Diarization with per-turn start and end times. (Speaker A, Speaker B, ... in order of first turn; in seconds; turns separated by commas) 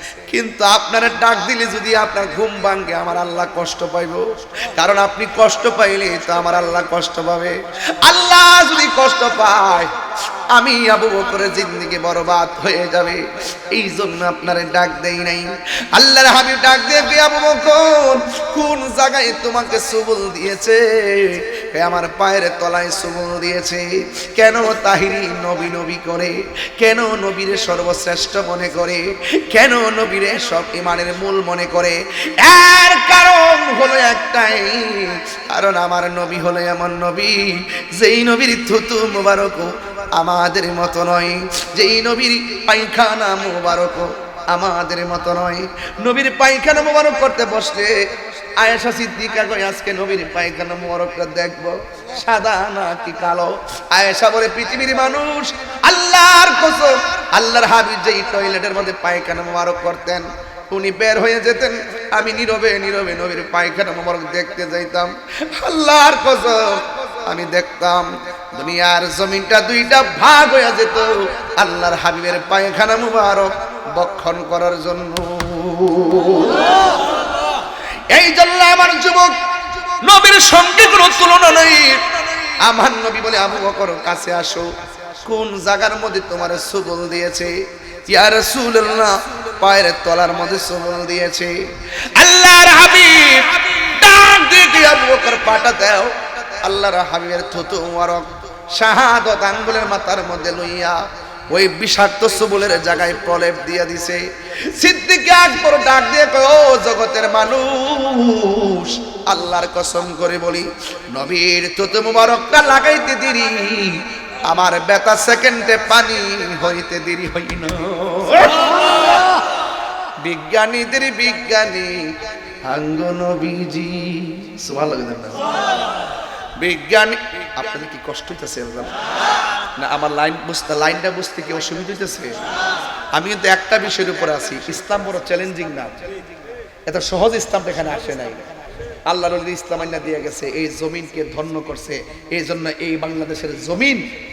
Speaker A: 0.2-9.9, Speaker A: 10.5-77.1, Speaker A: 78.1-87.5, Speaker A: 88.1-91.5, Speaker A: 92.2-118.8, Speaker A: 120.2-122.1, Speaker A: 122.7-125.5, Speaker A: 126.6-129.0, Speaker A: 129.8-132.4, Speaker A: 133.1-136.0, Speaker A: 136.9-138.4, Speaker A: 139.1-144.1